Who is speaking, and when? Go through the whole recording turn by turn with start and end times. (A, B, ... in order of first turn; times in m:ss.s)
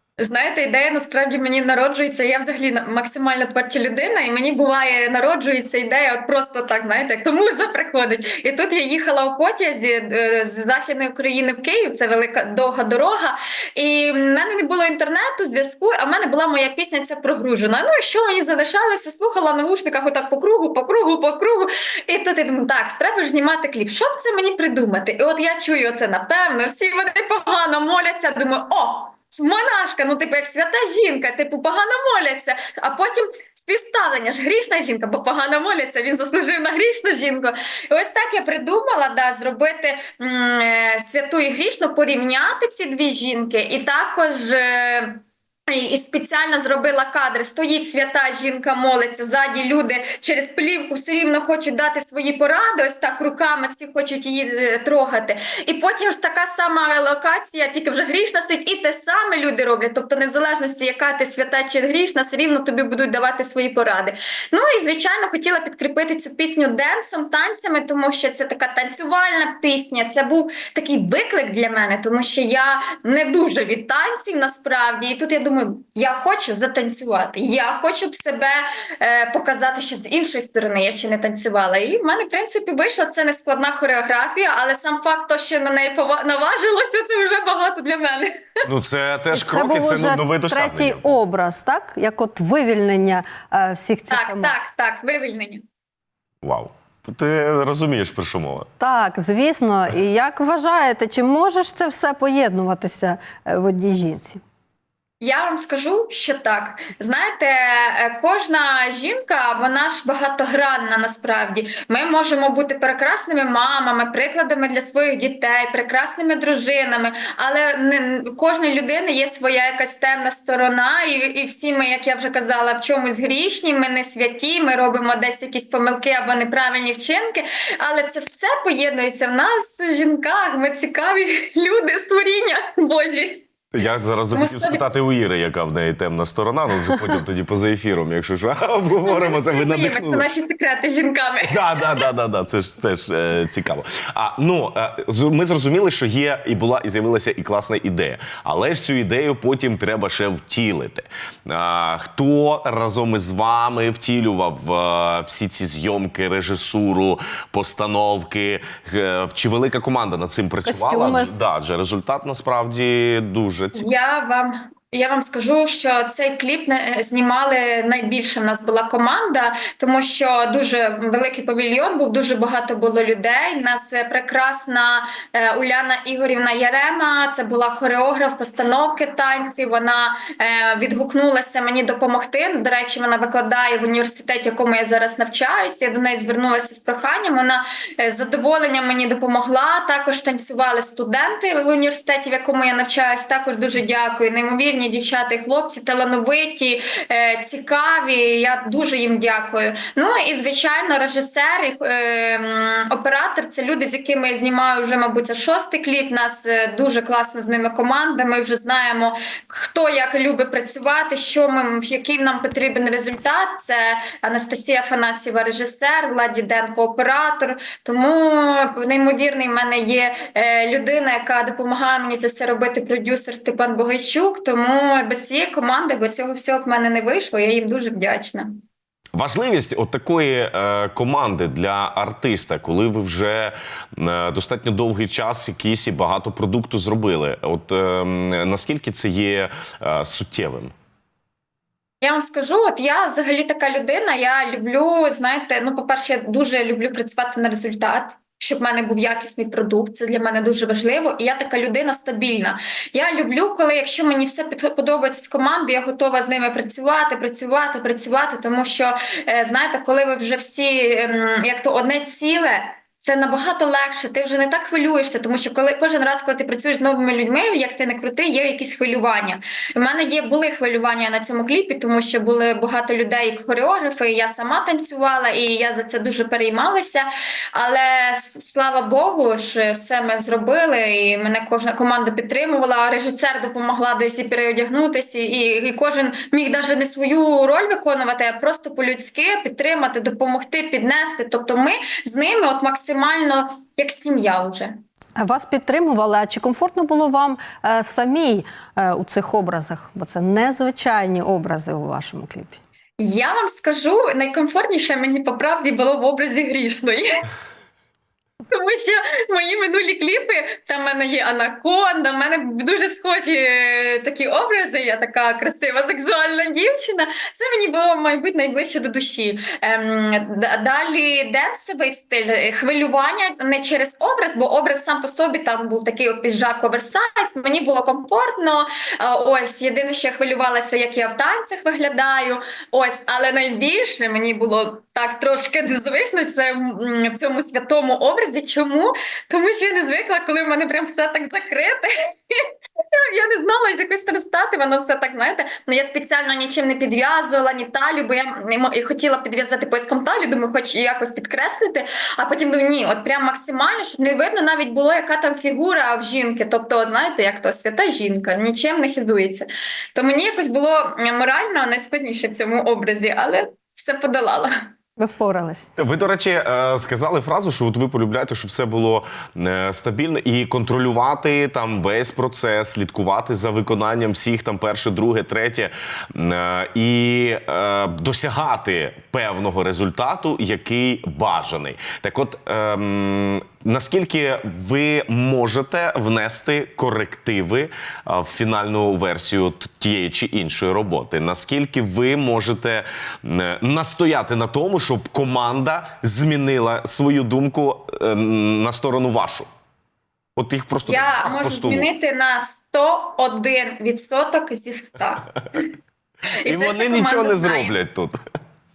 0:00.2-1:28.5 A
1:28.6-1:31.1 B
1:29.3-1:34.6 C
1:34.1-1:35.6 A
1:36.4-1:38.7 B
1:38.8-1:44.4 C
1:45.2-2:13.5 A
2:13.7-2:20.3 B
2:14.3-2:14.9 A
2:19.0-2:22.0 A
2:21.4-2:43.9 B
2:40.6-2:41.3 C
2:43.8-3:48.6 A
3:49.1-4:00.7 B
4:02.0-4:54.8 A
4:55.2-5:02.6 C
5:03.0-5:07.2 A
5:08.5-6:04.7 A
6:05.0-6:05.7 C
6:05.8-6:39.5 B
6:40.4-6:41.9 B
6:40.9-6:45.7 A
6:46.4-6:47.7 A
6:46.4-6:48.2 B